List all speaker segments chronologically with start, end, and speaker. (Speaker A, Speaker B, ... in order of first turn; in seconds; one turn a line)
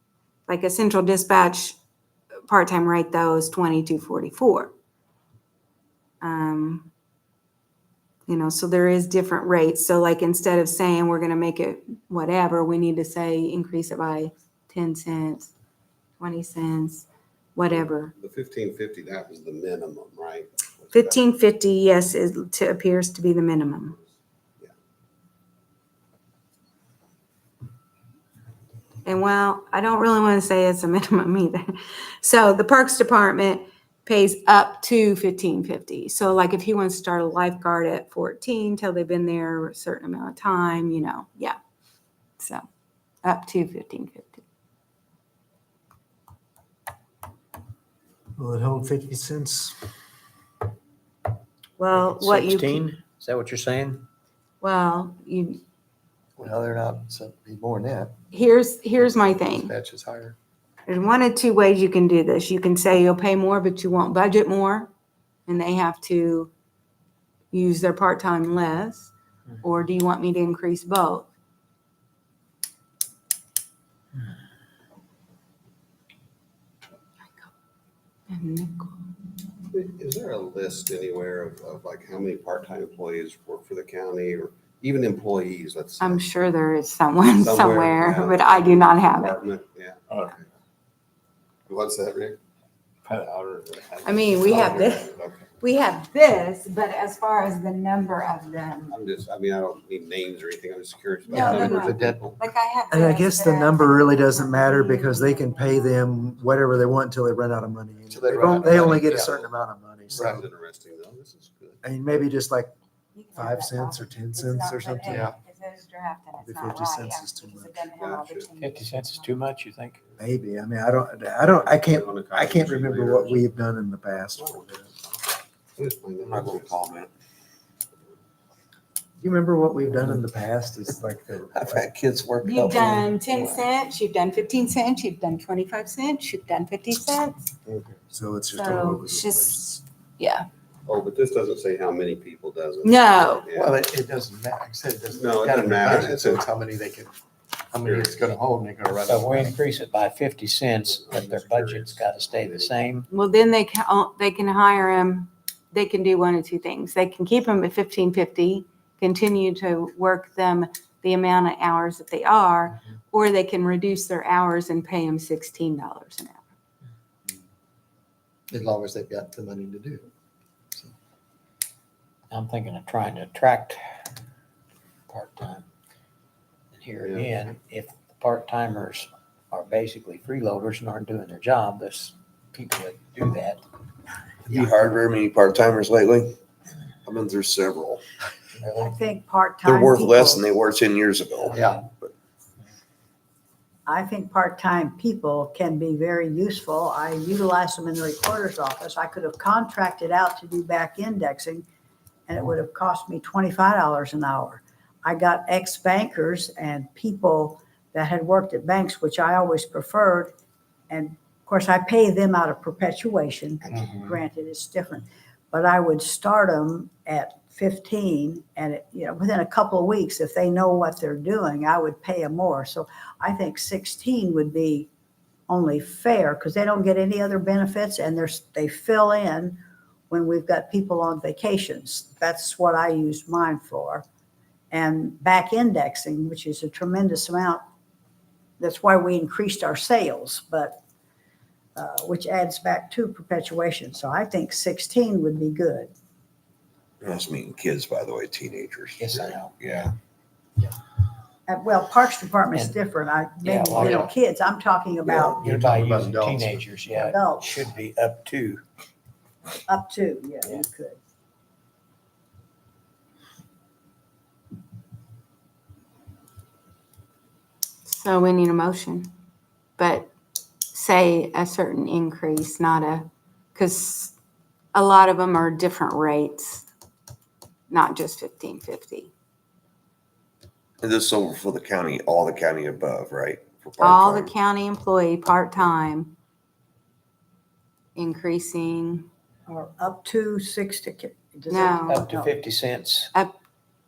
Speaker A: 0.5-1.8
Speaker A: 2.5-4.7
Speaker A: 6.2-6.9
Speaker A: 8.3-15.5
Speaker A: 16.2-17.0
Speaker A: 17.6-18.1
Speaker B: 18.1-21.3
Speaker A: 20.9-24.0
Speaker A: 29.0-41.5
Speaker A: 42.4-42.6
Speaker A: 43.2-44.4
Speaker C: 48.4-49.8
Speaker A: 51.8-52.8
Speaker D: 51.9-54.0
Speaker A: 54.6-55.6
Speaker E: 56.4-58.1
Speaker A: 58.3-59.7
Speaker E: 59.3-60.4
Speaker A: 60.9-64.9
Speaker A: 65.5-66.5
Speaker A: 67.5-69.1
Speaker A: 69.6-71.3
Speaker A: 78.3-79.1
Speaker B: 79.7-86.3
Speaker A: 86.0-89.4
Speaker B: 87.3-90.3
Speaker B: 91.7-92.4
Speaker B: 93.1-95.5
Speaker A: 94.0-95.1
Speaker A: 95.6-99.0
Speaker B: 98.9-102.4
Speaker A: 101.3-106.1
Speaker E: 101.3-102.2
Speaker C: 102.9-110.4
Speaker E: 108.1-109.3
Speaker B: 110.1-111.8
Speaker E: 110.1-110.4
Speaker C: 111.8-112.7
Speaker A: 113.1-119.4
Speaker C: 113.3-115.3
Speaker E: 115.1-115.3
Speaker C: 116.4-117.9
Speaker B: 118.0-118.5
Speaker D: 118.6-120.0
Speaker C: 120.2-124.8
Speaker B: 121.4-123.5
Speaker B: 124.3-126.8
Speaker F: 126.2-127.1
Speaker C: 129.2-131.8
Speaker F: 131.5-133.6
Speaker A: 132.4-137.5
Speaker C: 138.1-139.6
Speaker A: 138.5-140.4
Speaker B: 140.8-143.8
Speaker A: 142.8-143.5
Speaker E: 143.5-147.1
Speaker B: 145.1-146.4
Speaker E: 147.7-149.6
Speaker B: 147.8-148.4
Speaker D: 149.0-153.1
Speaker B: 150.8-152.8
Speaker A: 153.1-166.4
Speaker E: 168.5-170.0
Speaker D: 172.3-173.8
Speaker D: 175.1-175.6
Speaker D: 176.7-183.6
Speaker B: 177.0-177.4
Speaker F: 184.5-186.3
Speaker E: 184.5-184.8
Speaker F: 187.0-188.0
Speaker D: 188.6-188.9
Speaker G: 188.8-190.5
Speaker F: 189.6-192.1
Speaker E: 191.5-191.8
Speaker G: 193.8-201.6
Speaker G: 202.3-210.3
Speaker G: 210.9-224.9
Speaker G: 225.5-234.0
Speaker G: 234.7-237.6
Speaker G: 238.6-240.8
Speaker G: 241.8-245.9
Speaker F: 247.0-249.9
Speaker D: 249.0-249.5
Speaker G: 251.5-255.4
Speaker D: 253.4-254.1
Speaker E: 253.8-254.1
Speaker F: 255.0-255.5
Speaker E: 255.3-256.7
Speaker D: 255.4-258.6
Speaker G: 256.9-257.6
Speaker G: 259.7-261.0
Speaker A: 267.9-269.1
Speaker A: 269.8-270.1
Speaker A: 270.7-274.1
Speaker A: 274.7-276.7
Speaker A: 277.7-279.1
Speaker F: 280.8-284.3
Speaker A: 283.8-286.1
Speaker A: 287.9-289.1
Speaker G: 289.5-292.3
Speaker A: 291.5-292.0
Speaker D: 291.9-293.1